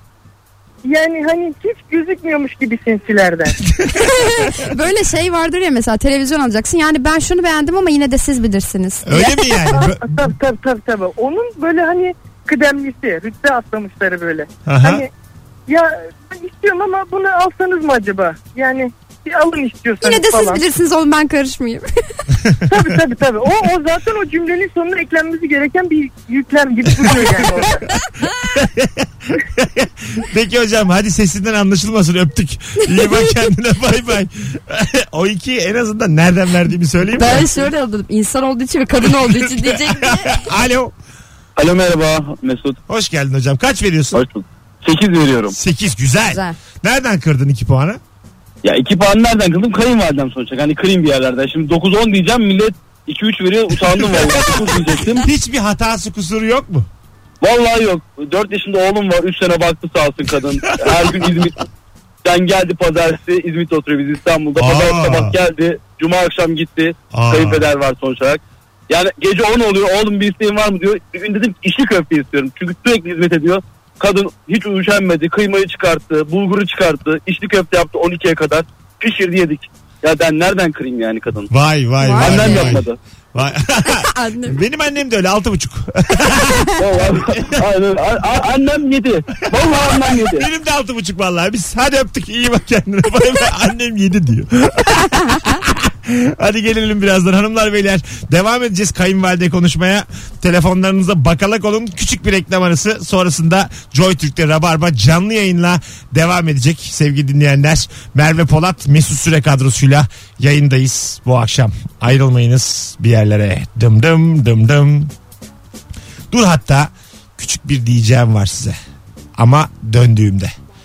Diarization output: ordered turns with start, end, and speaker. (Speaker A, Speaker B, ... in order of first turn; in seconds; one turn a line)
Speaker A: 0.8-3.6
Speaker B: 3.6-4.5
Speaker C: 4.0-9.9
Speaker B: 9.1-10.3
Speaker A: 9.7-15.1
Speaker B: 14.7-15.1
Speaker A: 15.7-20.6
Speaker C: 20.0-21.9
Speaker B: 22.4-22.9
Speaker A: 22.7-27.8
Speaker B: 26.9-27.4
Speaker B: 28.3-37.6
Speaker C: 37.1-40.3
Speaker B: 39.0-40.9
Speaker D: 41.6-42.8
Speaker B: 42.9-44.2
Speaker D: 44.1-45.5
Speaker B: 45.5-48.0
Speaker C: 46.3-46.6
Speaker D: 48.6-55.3
Speaker B: 53.8-56.9
Speaker D: 57.4-61.6
Speaker B: 60.7-61.5
Speaker D: 62.2-81.5
Speaker B: 64.6-65.4
Speaker B: 67.1-67.7
Speaker B: 81.5-87.7
Speaker C: 82.0-82.8
Speaker D: 82.2-83.0
Speaker C: 84.1-84.6
Speaker D: 86.8-90.5
Speaker B: 89.4-115.1
Speaker B: 116.3-118.8
Speaker B: 119.4-120.5